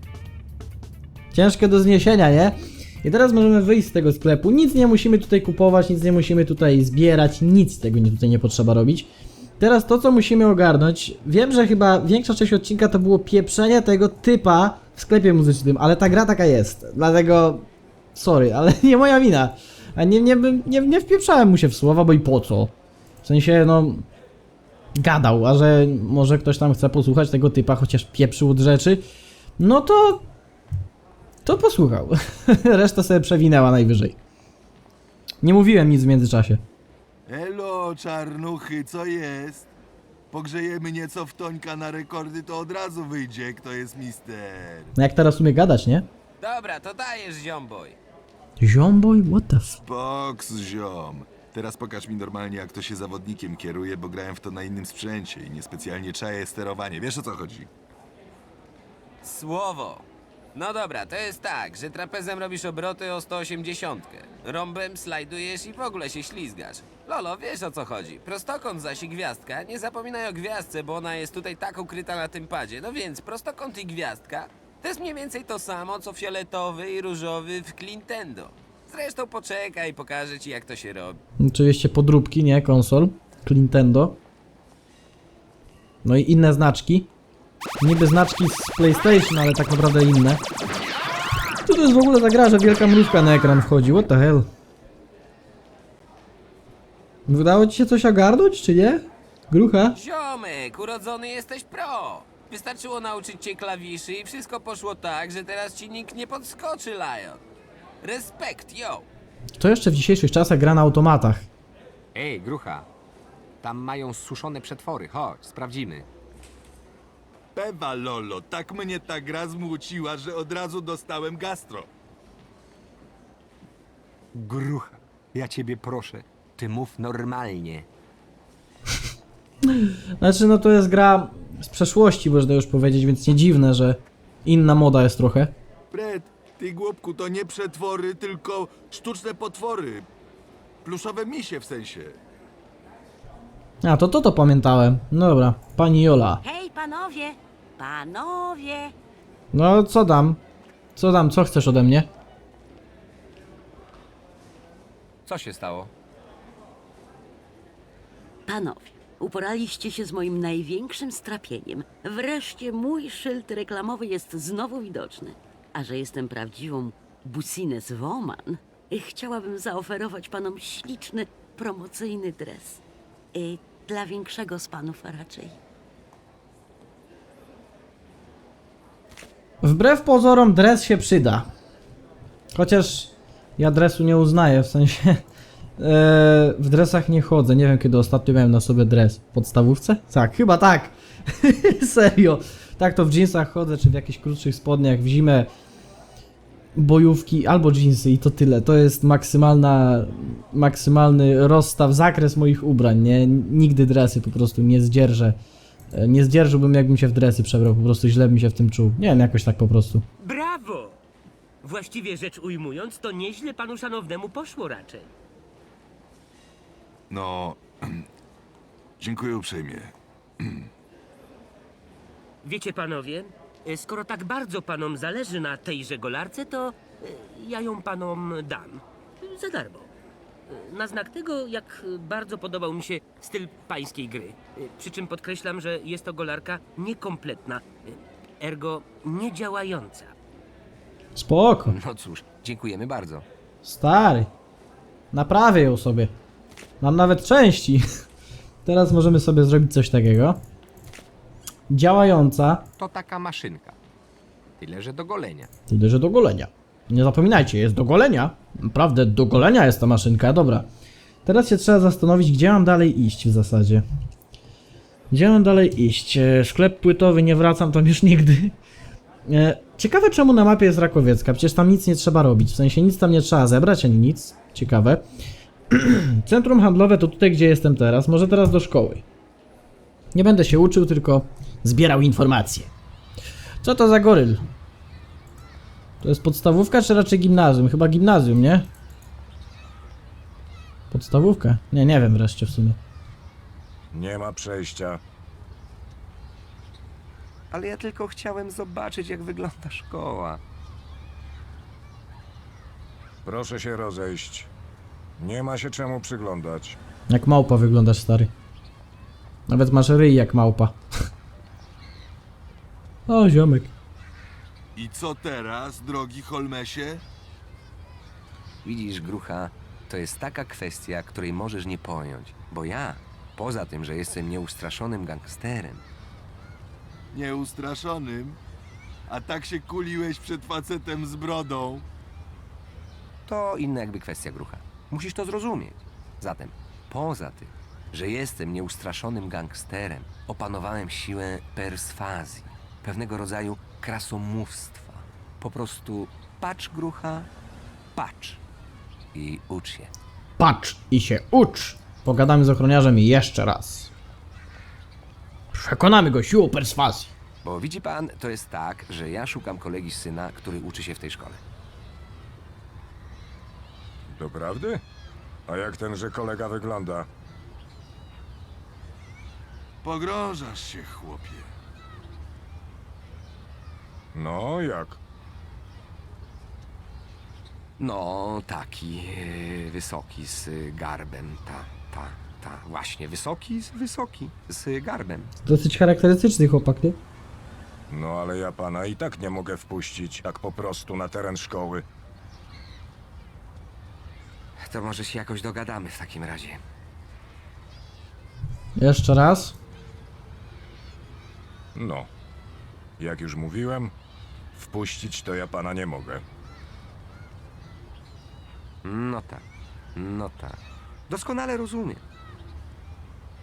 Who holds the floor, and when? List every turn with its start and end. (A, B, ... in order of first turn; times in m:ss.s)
0:01.3-0:24.1 A
0:25.0-0:29.0 A
0:29.6-0:30.3 A
0:31.4-0:34.2 A
0:35.4-0:36.6 A
0:37.3-0:39.7 B
0:40.3-0:44.9 B
0:45.0-0:46.1 A
0:46.4-0:48.0 C
0:48.6-0:49.8 A
0:49.8-0:57.7 B
0:59.2-1:21.2 C
1:21.4-1:24.2 A
1:26.0-1:27.1 A
1:27.8-1:30.4 A
1:31.6-1:34.5 A
1:37.3-1:40.0 A
1:40.0-1:47.4 C
1:48.0-1:49.1 C
1:49.6-1:51.5 A
1:52.1-1:52.9 D
1:53.6-1:56.1 D
1:57.6-2:01.9 B
2:04.3-2:07.9 D
2:09.8-2:15.5 A
2:15.9-2:20.1 B
2:20.8-2:22.2 B
2:23.8-2:26.4 A
2:26.4-2:28.9 E
2:29.5-2:30.4 A
2:31.0-2:32.1 A
2:35.3-2:35.9 D
2:38.5-2:52.8 E
2:53.3-2:55.6 E
2:59.6-3:01.5 A
3:02.6-3:05.2 A
3:05.8-3:15.5 A
3:16.8-3:25.4 A
3:25.9-3:30.1 A
3:30.2-3:31.0 F
3:31.6-3:35.1 F
3:37.1-3:38.1 B
3:39.0-3:40.7 B
3:42.4-3:49.9 F
3:50.5-4:00.2 F
4:01.2-4:01.8 A
4:01.7-4:03.3 D
4:03.6-4:04.3 A
4:05.1-4:06.1 A
4:06.8-4:07.8 A
4:08.6-4:10.4 A
4:11.7-4:12.7 A
4:12.8-4:13.8 D
4:14.6-4:15.5 D
4:15.7-4:20.7 A
4:21.3-4:23.8 A
4:25.1-4:28.6 A
4:29.3-4:35.0 A
4:35.7-4:39.0 A
4:40.1-4:42.7 A
4:43.6-4:44.4 A
4:46.0-4:48.7 A
4:50.9-4:52.8 A
4:53.9-4:55.0 G
4:57.5-5:00.4 D
5:03.2-5:04.5 G
5:05.2-5:06.8 G
5:07.1-5:08.3 A
5:09.5-5:10.8 A
5:13.1-5:13.7 A
5:14.8-5:17.0 B
5:18.6-5:25.8 D
5:27.1-5:28.4 B
5:29.1-5:31.9 B
5:33.3-5:47.3 D
5:48.0-5:48.4 D
5:49.1-5:49.9 D
5:50.4-5:53.9 A
5:55.5-5:57.1 A
5:57.4-6:01.4 D
6:04.1-6:04.8 G
6:05.5-6:07.1 G
6:09.8-6:11.5 B
6:14.1-6:15.0 G
6:17.8-6:25.3 D
6:25.5-6:27.0 A
6:27.9-6:31.8 G
6:34.6-6:36.6 D
6:38.8-6:39.6 A
6:41.8-6:42.1 G
6:43.0-6:43.9 G
6:44.6-6:46.2 G
6:48.8-6:49.4 D
6:50.0-6:52.0 D